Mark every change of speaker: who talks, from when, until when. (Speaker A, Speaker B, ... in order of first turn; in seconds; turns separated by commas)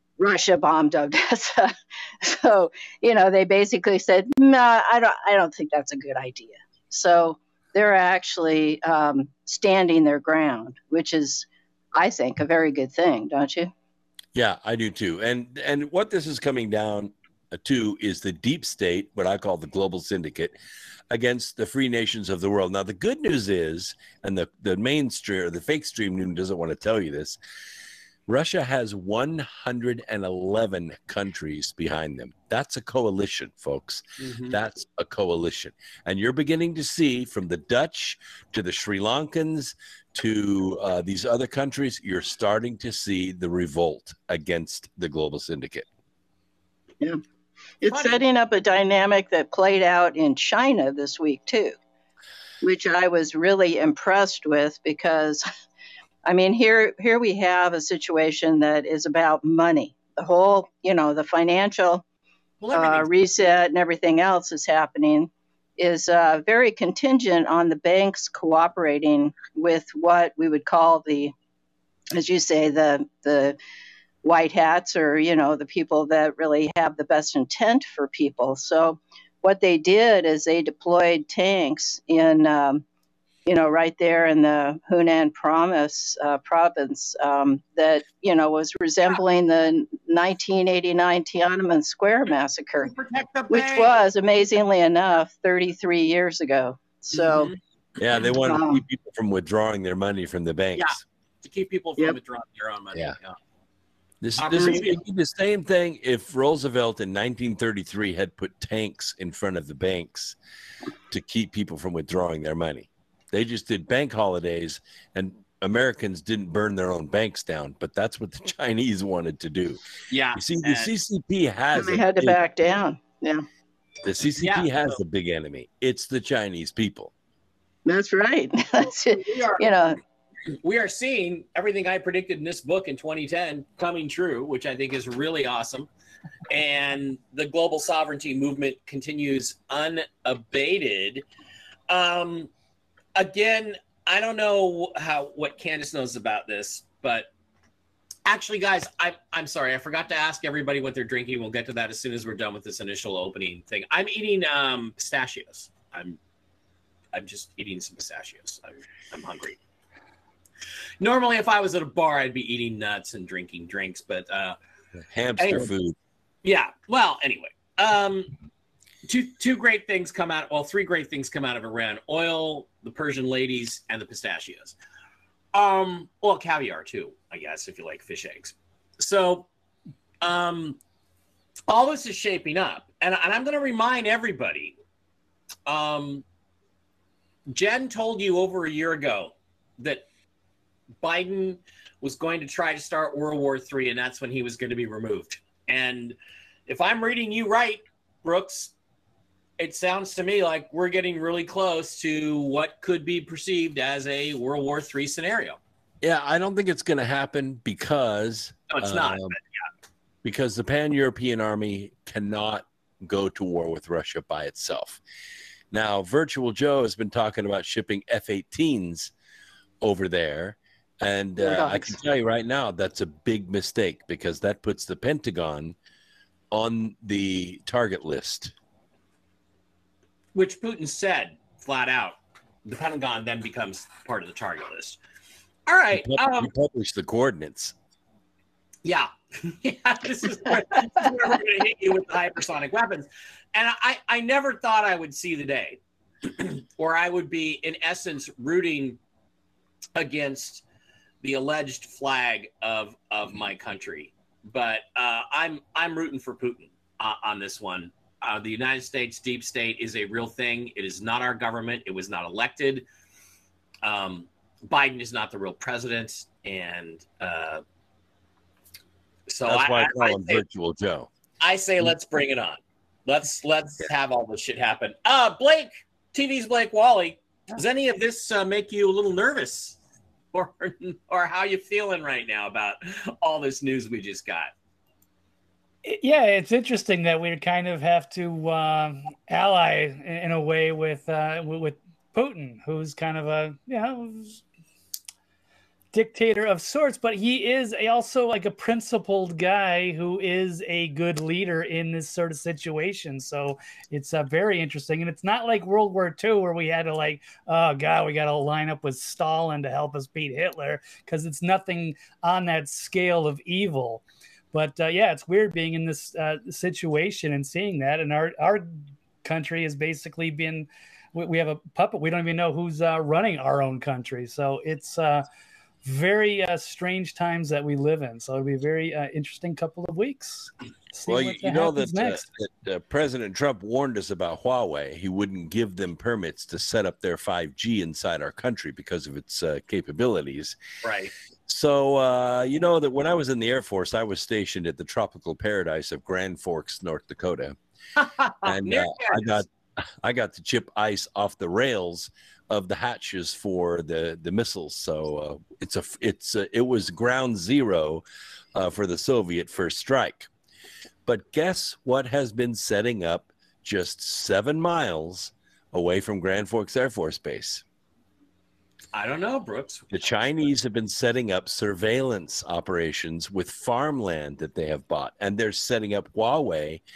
Speaker A: 0.2-13.7, Speaker B: 14.3-20.5, Speaker B: 21.1-27.4, Speaker B: 28.3-45.9, Speaker C: 34.2-34.5, Speaker A: 47.8-51.8, Speaker C: 47.8-48.2, Speaker A: 52.6-55.4, Speaker A: 56.2-62.0, Speaker C: 62.6-63.1, Speaker A: 62.7-71.3, Speaker A: 72.1-73.6, Speaker A: 74.2-82.8, Speaker A: 83.5-92.9, Speaker C: 92.8-94.0, Speaker A: 93.5-97.5, Speaker C: 97.1-97.6, Speaker B: 98.0-101.0, Speaker A: 98.4-98.8, Speaker C: 100.8-103.3, Speaker B: 104.2-110.3, Speaker C: 104.4-105.0, Speaker B: 111.1-119.8, Speaker C: 120.1-120.9, Speaker B: 120.3-122.4, Speaker A: 121.7-123.4, Speaker B: 124.0-127.1, Speaker C: 124.4-124.7, Speaker A: 127.8-130.0, Speaker C: 129.2-129.7, Speaker C: 130.6-135.9, Speaker C: 136.5-141.2, Speaker C: 141.9-142.5, Speaker C: 143.1-147.3, Speaker C: 148.2-156.2, Speaker C: 157.1-159.6, Speaker C: 161.0-164.6, Speaker B: 165.1-165.9, Speaker C: 165.4-165.7, Speaker C: 166.4-168.3, Speaker C: 169.0-174.7, Speaker C: 175.5-179.5, Speaker C: 180.2-180.8, Speaker C: 181.7-184.8, Speaker C: 185.7-186.2, Speaker C: 187.5-190.0, Speaker C: 191.0-198.7, Speaker C: 199.6-205.6, Speaker B: 206.0-209.3, Speaker C: 208.7-209.4, Speaker B: 210.2-215.0, Speaker B: 215.7-219.1, Speaker B: 219.8-225.8, Speaker A: 221.4-221.9, Speaker B: 226.5-228.5, Speaker C: 230.3-235.0, Speaker C: 235.7-236.5, Speaker B: 236.0-237.7, Speaker C: 238.8-249.0, Speaker C: 249.9-250.6, Speaker C: 251.2-262.8, Speaker C: 263.8-267.6, Speaker C: 269.3-270.4, Speaker B: 269.5-271.1, Speaker C: 271.4-279.8, Speaker C: 280.3-284.5, Speaker D: 285.8-294.4, Speaker D: 295.9-325.2, Speaker D: 325.8-332.2, Speaker B: 331.1-340.6, Speaker C: 340.8-341.1, Speaker B: 341.5-347.6, Speaker C: 348.0-349.4, Speaker B: 348.4-349.5, Speaker B: 350.0-358.0, Speaker B: 358.5-360.3, Speaker B: 361.1-367.6, Speaker C: 368.9-370.5, Speaker B: 369.9-376.8